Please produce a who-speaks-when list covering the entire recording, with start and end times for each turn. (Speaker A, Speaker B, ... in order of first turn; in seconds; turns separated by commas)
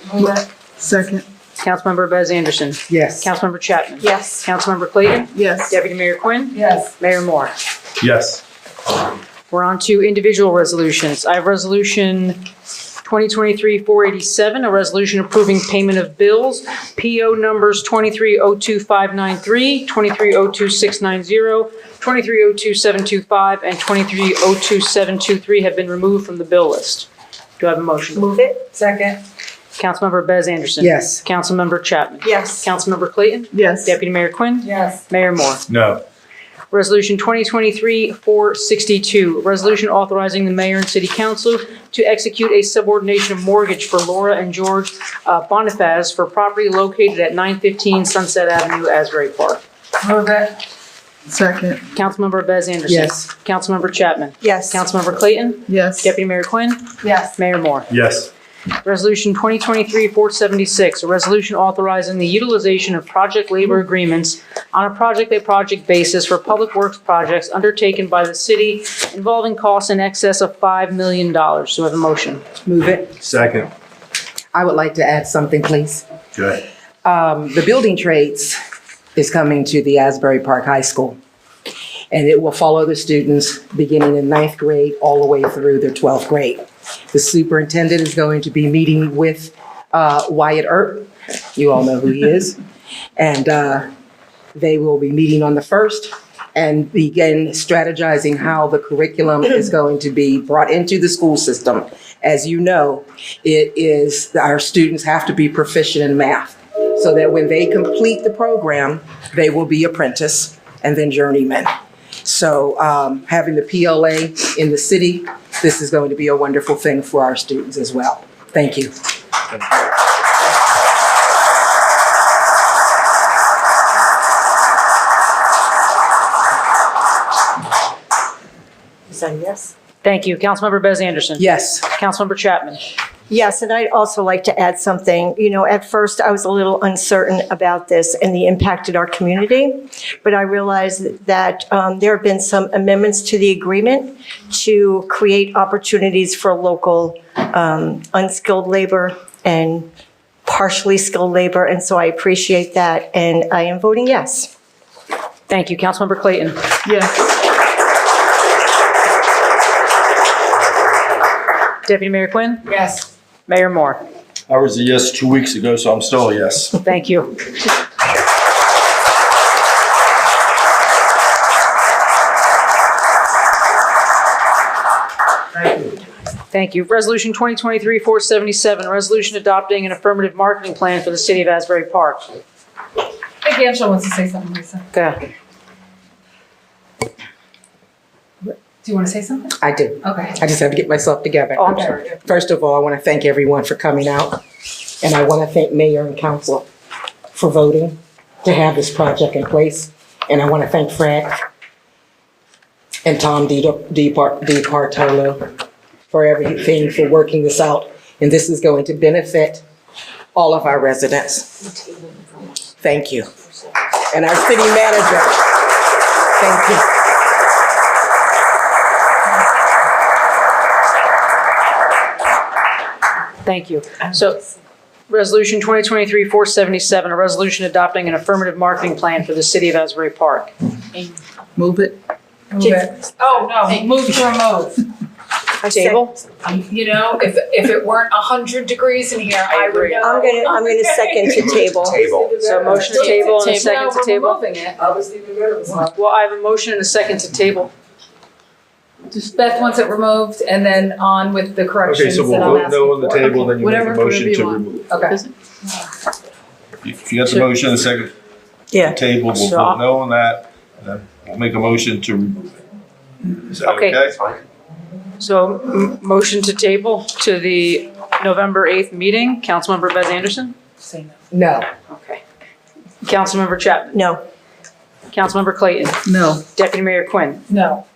Speaker A: 0.8-1.2, Speaker B: 1.6-7.5, Speaker C: 2.9-3.3, Speaker D: 4.0-4.4, Speaker A: 5.3-5.8, Speaker E: 6.5-6.9, Speaker F: 8.0-8.4, Speaker B: 9.5-12.5, Speaker B: 13.0-27.1, Speaker B: 27.6-28.3, Speaker D: 28.1-28.7, Speaker B: 29.8-35.6, Speaker C: 30.8-31.2, Speaker D: 32.2-32.7, Speaker A: 33.5-34.0, Speaker F: 35.7-36.0, Speaker B: 36.7-49.6, Speaker E: 50.0-50.6, Speaker A: 51.3-51.8, Speaker B: 51.9-57.9, Speaker C: 52.9-53.2, Speaker D: 54.4-54.8, Speaker A: 55.7-56.1, Speaker E: 57.0-57.3, Speaker F: 57.9-58.3, Speaker B: 58.8-72.4, Speaker C: 72.7-73.2, Speaker F: 73.2-73.6, Speaker C: 74.5-76.0, Speaker C: 77.0-78.6, Speaker C: 79.2-81.2, Speaker C: 82.1-92.6, Speaker C: 93.2-93.9, Speaker C: 94.5-111.7, Speaker C: 112.2-119.0, Speaker D: 129.1-129.7, Speaker B: 130.0-132.8, Speaker C: 131.4-131.8, Speaker D: 133.3-149.9, Speaker D: 150.4-154.5, Speaker B: 155.5-156.8, Speaker A: 156.8-157.2, Speaker B: 161.8-162.7, Speaker E: 162.7-163.1, Speaker B: 163.5-164.0, Speaker F: 164.5-166.7, Speaker B: 166.8-167.6, Speaker B: 176.5-182.3, Speaker E: 183.4-184.9, Speaker B: 184.9-185.2, Speaker E: 188.8-190.4, Speaker C: 189.6-194.4, Speaker B: 191.6-192.2, Speaker C: 195.0-196.7, Speaker C: 197.3-201.4, Speaker C: 203.0-205.5, Speaker C: 206.1-209.6, Speaker C: 210.3-211.7, Speaker C: 212.8-213.3, Speaker C: 214.1-215.5, Speaker C: 216.4-216.9, Speaker B: 223.4-224.4, Speaker B: 225.1-230.5, Speaker A: 231.6-232.0, Speaker E: 232.5-234.8, Speaker D: 232.6-232.9, Speaker D: 235.6-236.1, Speaker B: 235.7-236.2, Speaker E: 236.4-245.9, Speaker B: 239.5-240.3, Speaker D: 240.0-242.1, Speaker B: 242.4-244.4, Speaker B: 245.8-247.7, Speaker E: 249.1-255.3, Speaker F: 251.9-254.9, Speaker F: 256.8-258.1, Speaker D: 258.7-259.0, Speaker F: 258.8-262.5, Speaker B: 259.3-259.8, Speaker F: 263.6-264.1, Speaker B: 263.6-264.0, Speaker B: 265.2-270.5, Speaker C: 271.3-271.7, Speaker B: 271.9-272.2, Speaker B: 273.0-274.0, Speaker D: 273.9-274.2, Speaker B: 275.1-277.5, Speaker E: 276.1-276.4, Speaker E: 277.5-277.8